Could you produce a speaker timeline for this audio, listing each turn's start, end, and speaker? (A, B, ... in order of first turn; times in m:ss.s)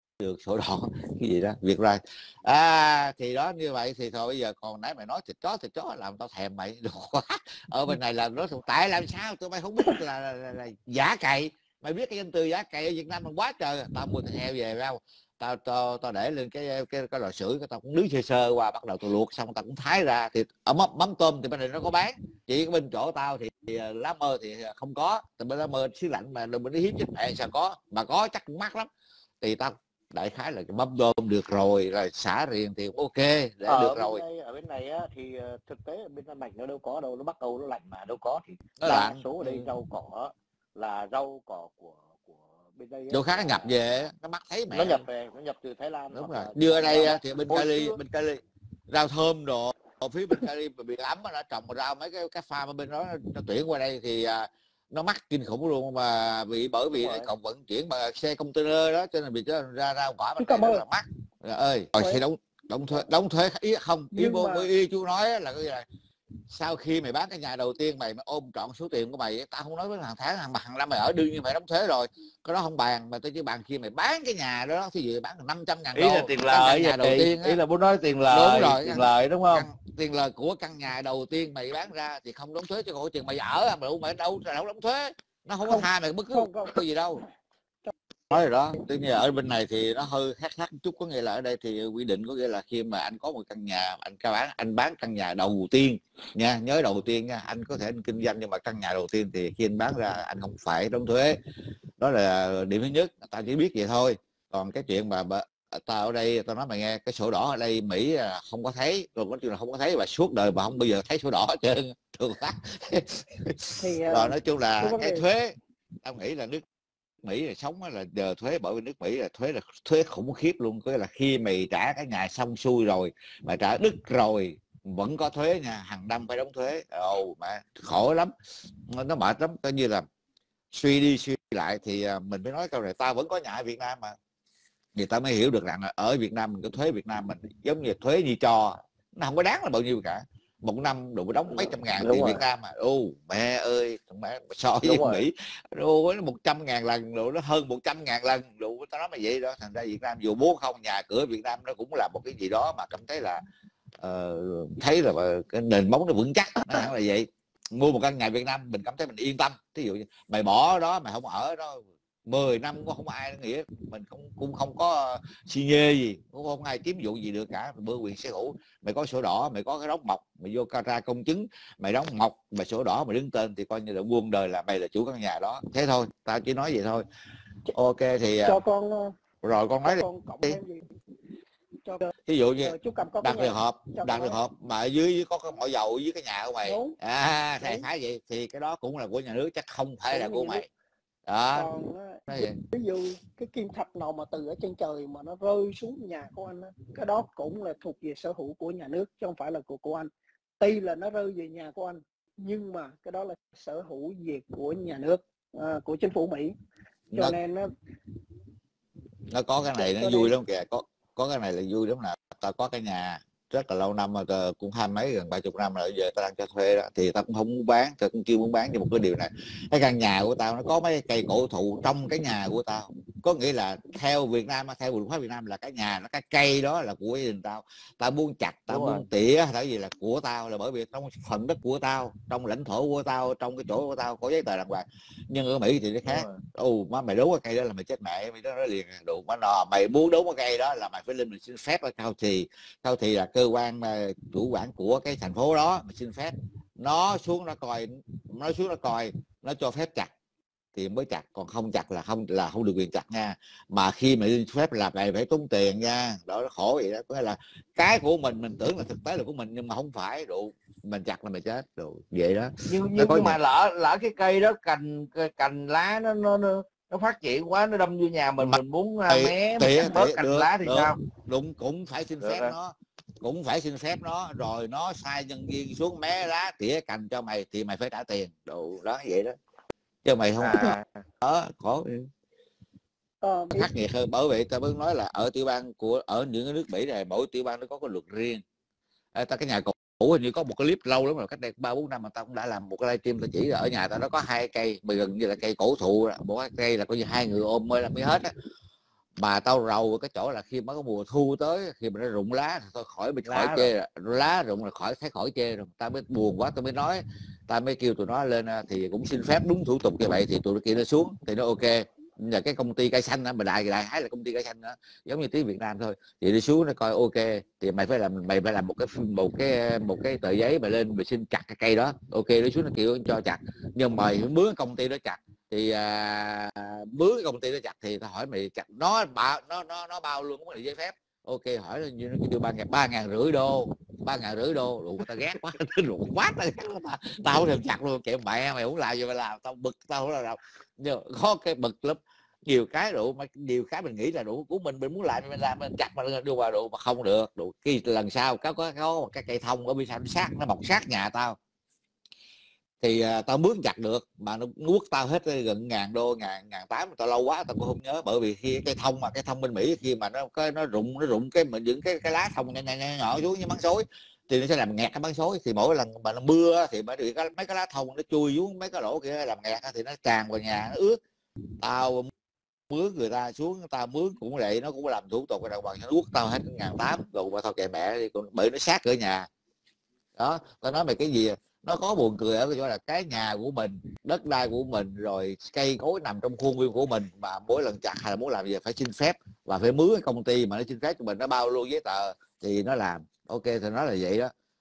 0:00.2-0:28.9 A
0:29.4-0:34.2 A
0:33.7-0:44.0 B
0:38.8-0:39.7 A
0:43.1-0:45.1 A
0:44.7-0:48.0 B
0:46.1-0:48.4 A
0:48.9-1:05.8 A
0:57.0-0:57.3 B
1:00.4-1:00.8 C
1:02.0-1:02.2 C
1:04.1-1:04.7 C
1:06.5-1:17.6 A
1:15.9-1:19.7 D
1:18.3-1:27.2 A
1:25.6-1:26.8 C
1:28.3-1:41.4 A
1:42.0-1:55.5 A
1:53.8-1:55.2 C
1:56.0-1:56.6 A
1:57.2-2:08.3 A
2:08.9-2:10.1 A
2:10.7-2:14.1 A
2:15.0-2:33.4 A
2:24.8-2:25.2 D
2:34.0-2:57.0 A
2:57.7-2:58.6 A
2:58.4-2:59.2 C
2:59.4-3:00.6 A
2:59.8-3:00.8 C
3:01.8-3:04.4 C
3:02.3-3:10.7 A
3:06.6-3:06.9 C
3:10.1-3:10.6 C
3:11.3-3:11.7 A
3:11.6-3:12.2 C
3:12.3-3:12.6 A
3:12.7-3:26.5 C
3:27.1-3:27.4 A
3:27.2-3:27.7 C
3:29.3-4:10.1 A
3:29.8-3:30.3 C
3:48.7-3:49.0 D
3:56.0-3:56.4 D
4:10.8-4:23.4 A
4:22.7-4:31.0 D
4:28.4-4:39.4 A
4:32.2-4:32.6 D
4:40.0-4:42.1 A
4:40.4-4:41.0 D
4:43.2-4:43.7 C
4:43.5-4:48.4 A
4:49.2-4:58.3 A
4:59.2-5:51.4 A
5:03.2-5:03.7 D
5:52.8-6:11.0 A
6:11.6-6:12.1 A
6:12.7-6:19.3 A
6:20.2-6:34.3 A